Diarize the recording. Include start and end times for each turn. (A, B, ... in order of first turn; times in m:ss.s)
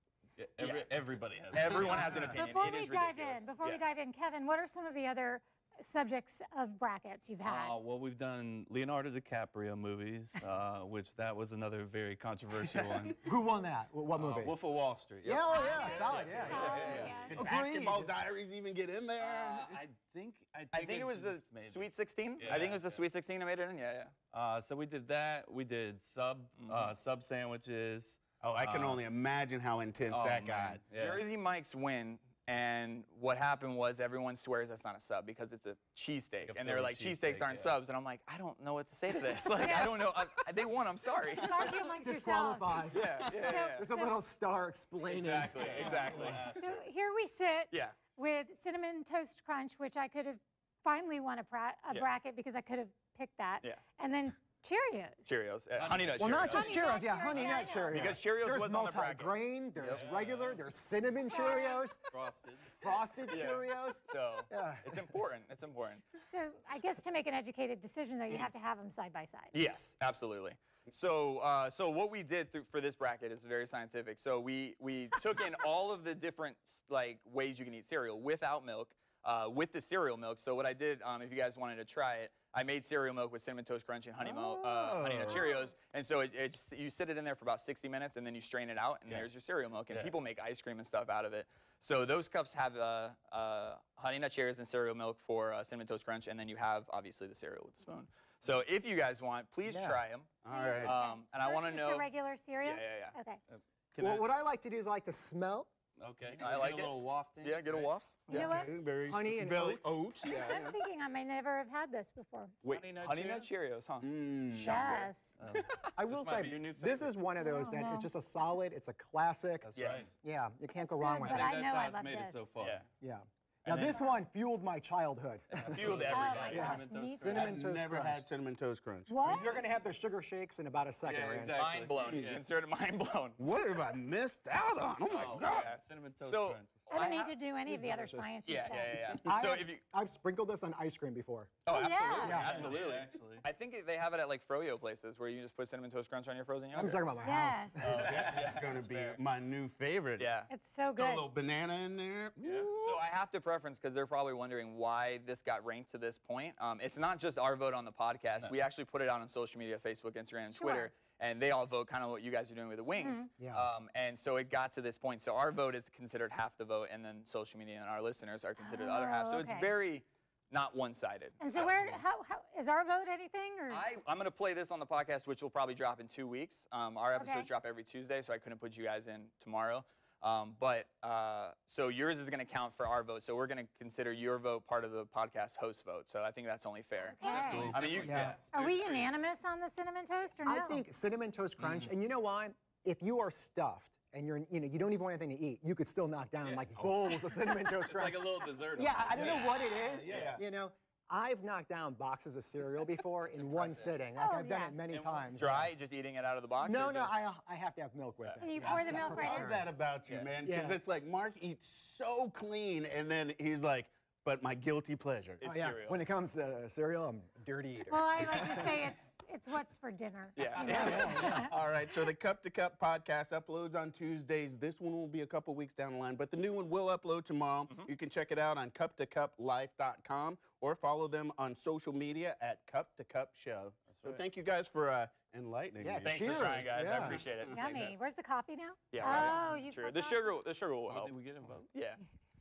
0:00.4-0:02.4 A
0:00.6-0:00.9 B
0:01.5-0:03.8 B
0:01.9-0:07.8 C
0:07.4-0:13.1 A
0:12.6-0:13.0 D
0:13.2-0:14.5 E
0:14.1-0:17.3 A
0:15.2-0:18.1 E
0:15.5-0:17.4 C
0:16.2-0:17.2 B
0:17.2-0:19.8 D
0:19.2-0:23.0 A
0:20.7-0:24.1 B
0:24.3-0:29.0 A
0:26.6-0:26.9 B
0:28.4-0:30.8 D
0:30.1-0:31.2 A
0:30.9-0:41.8 B
0:36.4-0:37.7 A
0:39.6-0:39.9 C
0:41.5-0:44.1 C
0:41.8-0:46.1 E
0:42.9-0:43.9 B
0:45.0-0:46.8 A
0:45.4-0:46.5 B
0:45.6-0:46.4 D
0:45.8-0:55.4 C
0:47.7-0:48.0 B
0:55.2-0:59.3 B
0:55.7-0:56.5 A
0:56.2-1:02.0 E
0:56.5-0:58.0 C
0:59.8-1:00.6 A
1:01.2-1:01.9 C
1:02.1-1:03.0 A
1:02.8-1:05.0 E
1:03.3-1:06.0 B
1:06.2-1:09.6 C
1:09.5-1:42.1 B
1:24.2-1:25.6 D
1:39.6-1:40.0 E
1:40.4-1:41.0 D
1:40.5-1:43.4 C
1:42.6-1:43.2 B
1:44.0-1:44.2 D
1:44.0-1:45.7 E
1:46.0-1:47.9 A
1:46.4-1:48.5 B
1:48.3-1:48.7 C
1:48.3-1:50.8 D
1:49.0-1:49.9 E
1:50.2-1:52.6 C
1:52.6-1:53.5 A
1:52.6-1:54.1 B
1:54.0-1:54.9 D
1:54.5-1:54.8 A
1:54.6-1:55.3 C
1:54.6-1:55.1 B
1:55.4-1:57.2 A
1:56.0-2:01.6 E
1:57.3-1:58.1 C
1:59.6-2:00.1 A
1:59.7-2:00.1 B
2:00.9-2:02.5 C
2:01.2-2:02.9 A
2:02.6-2:02.8 B
2:03.0-2:08.2 E
2:03.6-2:04.0 B
2:03.9-2:04.1 C
2:05.6-2:07.5 A
2:05.6-2:06.8 B
2:06.0-2:07.3 C
2:07.3-2:09.2 D
2:09.1-2:09.6 C
2:09.2-2:11.6 E
2:11.0-2:12.4 A
2:11.5-2:13.4 B
2:13.4-2:15.7 D
2:15.1-2:16.9 A
2:15.1-2:17.3 B
2:16.9-2:19.0 C
2:17.7-2:18.2 E
2:18.4-2:19.8 B
2:19.2-2:21.6 E
2:21.6-2:27.2 B
2:21.7-2:22.4 C
2:22.2-2:23.4 A
2:22.2-2:22.7 E
2:26.7-2:27.9 E
2:27.2-2:27.9 C
2:27.8-2:29.2 B
2:27.8-2:28.6 A
2:27.9-2:30.3 D
2:30.2-2:30.5 B
2:30.5-2:31.2 C
2:31.0-2:33.0 D
2:32.4-2:52.0 B
2:40.5-2:40.9 C
2:43.0-2:43.3 C
2:43.4-2:43.7 E
2:48.6-2:49.7 C
2:51.4-2:53.8 C
2:53.7-3:08.3 B
2:57.1-2:57.5 C
3:07.1-3:07.7 C
3:07.2-3:09.2 A
3:07.5-3:07.8 D
3:07.9-3:08.4 E
3:08.5-3:10.8 C
3:10.4-3:25.7 E
3:16.4-3:20.4 A
3:19.9-3:20.4 D
3:23.3-3:24.1 A
3:24.2-3:24.9 C
3:24.9-3:25.6 A
3:25.3-3:27.1 B
3:26.6-3:29.6 E
3:28.4-3:29.5 C
3:28.6-3:35.4 D
3:30.4-3:30.8 E
3:35.4-3:36.0 B
3:35.4-3:38.8 E
3:37.9-3:41.5 C
3:40.4-3:41.5 B
3:40.6-3:41.4 E
3:41.3-3:57.6 D
3:53.9-3:54.2 A
3:55.8-3:57.2 E
3:56.0-3:58.0 B
3:57.5-4:00.2 C
3:58.9-4:01.1 B
3:59.1-3:59.5 A
4:00.9-4:01.7 A
4:01.7-4:02.0 B